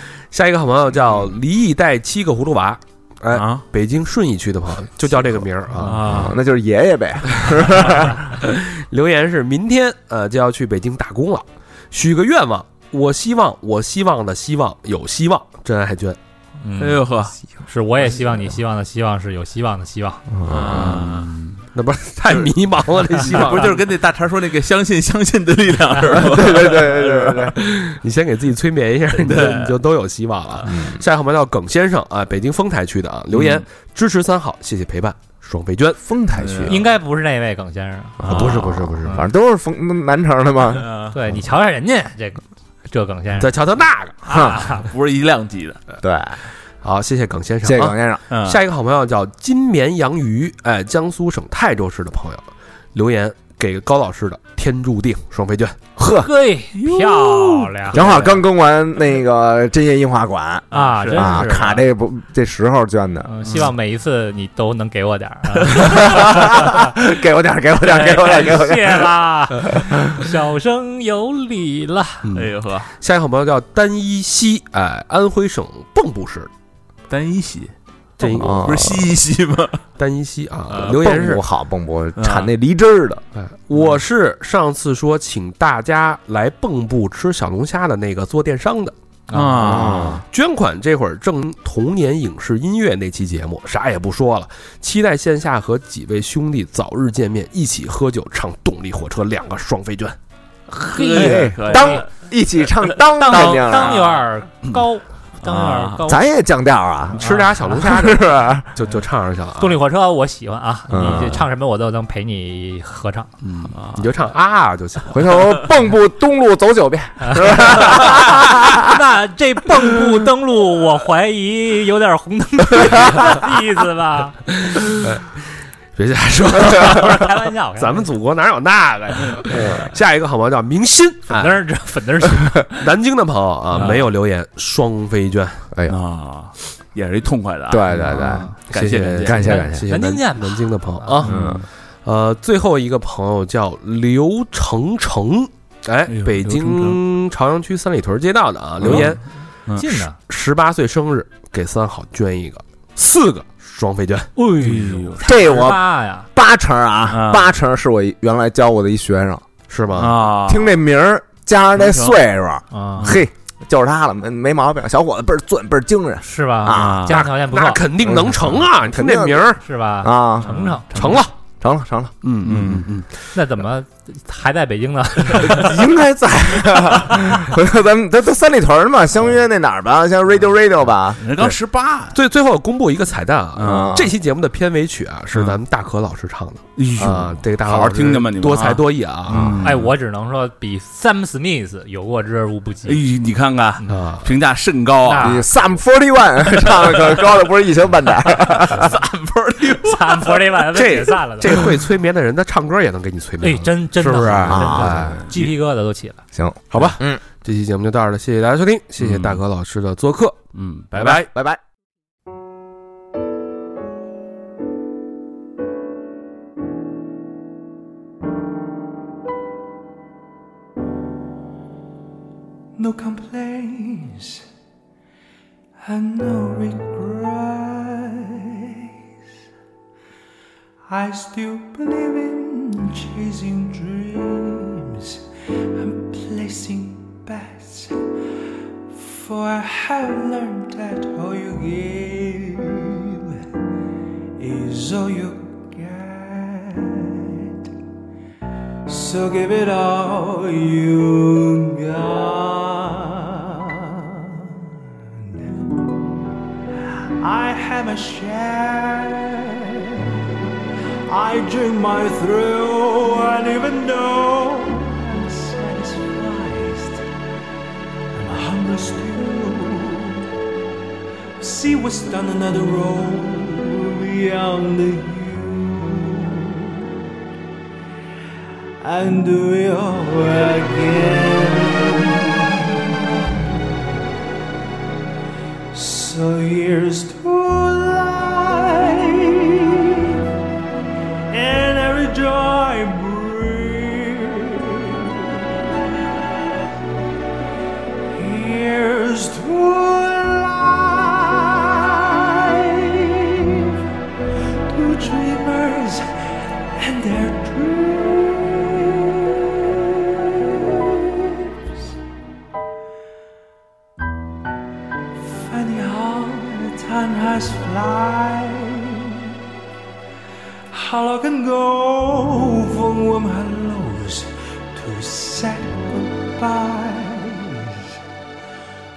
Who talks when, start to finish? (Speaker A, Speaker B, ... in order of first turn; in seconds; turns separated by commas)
Speaker A: 0.3-6.2, Speaker B: 3.3-3.6, Speaker B: 5.8-6.4, Speaker C: 5.9-8.3, Speaker A: 8.2-16.2, Speaker D: 16.6-17.0, Speaker B: 16.7-17.3, Speaker D: 17.6-20.2, Speaker C: 20.3-21.0, Speaker B: 20.4-21.6, Speaker A: 20.6-23.8, Speaker B: 23.2-27.5, Speaker C: 26.1-27.6, Speaker A: 27.5-36.0, Speaker B: 29.1-29.8, Speaker C: 30.6-31.0, Speaker B: 33.3-33.6, Speaker C: 36.0-36.8, Speaker B: 36.4-36.8, Speaker D: 36.7-38.3, Speaker A: 38.2-39.2, Speaker B: 38.3-38.9, Speaker C: 38.3-40.9, Speaker B: 40.8-41.1, Speaker D: 41.1-43.5, Speaker A: 43.4-44.5, Speaker D: 44.3-44.8, Speaker C: 44.3-44.6, Speaker B: 44.7-45.8, Speaker C: 46.0-46.4, Speaker A: 46.8-55.8, Speaker C: 47.6-48.2, Speaker B: 48.3-48.6, Speaker C: 56.0-56.3, Speaker D: 56.2-58.3, Speaker B: 56.8-58.4, Speaker C: 57.9-63.3, Speaker D: 60.7-61.8, Speaker B: 60.7-61.4, Speaker D: 63.3-66.9, Speaker C: 65.8-69.9, Speaker D: 67.9-72.3, Speaker A: 72.2-76.5, Speaker B: 72.3-72.9, Speaker B: 77.1-79.8, Speaker A: 78.2-78.8, Speaker C: 78.4-79.1, Speaker A: 80.0-81.4, Speaker B: 80.7-81.0, Speaker C: 80.8-83.2, Speaker B: 82.2-82.5, Speaker A: 83.3-88.9, Speaker D: 89.3-89.8, Speaker B: 89.3-90.2, Speaker C: 89.6-90.2, Speaker A: 90.2-100.2, Speaker D: 100.7-102.0, Speaker B: 100.8-102.1, Speaker C: 101.1-104.0, Speaker D: 103.2-106.2, Speaker B: 103.3-104.8, Speaker B: 105.4-106.0, Speaker C: 106.0-108.7, Speaker A: 107.1-109.8, Speaker D: 109.6-113.3, Speaker C: 110.9-111.4, Speaker B: 110.9-111.4, Speaker A: 113.4-115.4, Speaker B: 113.7-114.1, Speaker C: 115.1-118.9, Speaker D: 117.2-124.9, Speaker A: 124.7-125.4, Speaker A: 125.9-131.6, Speaker D: 126.6-128.1, Speaker D: 131.3-132.9, Speaker A: 132.8-135.7, Speaker D: 133.7-134.1, Speaker B: 135.9-139.7, Speaker C: 137.7-138.5, Speaker D: 138.1-138.5, Speaker A: 138.7-149.2, Speaker C: 139.2-139.9, Speaker D: 139.4-141.2, Speaker B: 141.2-141.7, Speaker C: 141.2-141.6, Speaker B: 146.1-147.0, Speaker B: 148.8-150.0, Speaker D: 149.8-150.2, Speaker A: 150.3-154.3, Speaker D: 154.4-156.2, Speaker B: 154.6-155.4, Speaker C: 155.2-159.4, Speaker B: 157.1-157.5, Speaker A: 159.7-160.2, Speaker B: 159.9-160.8, Speaker C: 160.4-167.2, Speaker B: 161.8-162.2, Speaker D: 162.7-163.2, Speaker B: 163.0-163.2, Speaker D: 166.2-167.8, Speaker B: 166.7-167.2, Speaker A: 167.1-169.6, Speaker C: 168.0-172.8, Speaker D: 169.6-170.9, Speaker B: 170.4-171.1, Speaker A: 170.9-171.3, Speaker A: 172.2-173.1, Speaker B: 172.4-172.9, Speaker D: 173.3-175.9, Speaker C: 175.3-181.2, Speaker B: 181.2-182.2, Speaker A: 182.1-189.6, Speaker B: 183.6-184.0, Speaker C: 183.6-184.1, Speaker B: 185.3-185.6, Speaker B: 186.8-189.9, Speaker C: 189.3-189.6, Speaker D: 189.6-193.0, Speaker B: 192.8-195.4, Speaker A: 193.9-194.3, Speaker D: 195.0-195.4, Speaker C: 195.2-198.9, Speaker B: 196.8-197.1, Speaker B: 198.5-200.5, Speaker D: 199.8-201.7, Speaker A: 200.7-205.4, Speaker D: 203.4-206.2, Speaker C: 204.4-205.2, Speaker C: 206.3-207.2, Speaker A: 206.7-211.3, Speaker B: 209.0-209.4, Speaker B: 210.5-211.2, Speaker C: 211.0-211.6, Speaker E: 222.8-224.4, Speaker E: 225.8-228.8, Speaker E: 230.9-235.2, Speaker E: 235.7-238.0, Speaker E: 238.9-243.4, Speaker E: 244.4-247.7, Speaker E: 248.8-254.5, Speaker E: 255.1-255.7, Speaker E: 257.2-260.1, Speaker E: 261.1-267.1, Speaker E: 268.1-270.3, Speaker E: 271.4-276.9, Speaker E: 278.8-284.0, Speaker E: 285.7-290.1, Speaker E: 291.3-295.4, Speaker E: 298.1-303.8, Speaker E: 304.7-306.1, Speaker E: 306.8-311.9, Speaker E: 315.2-319.3, Speaker E: 320.7-328.0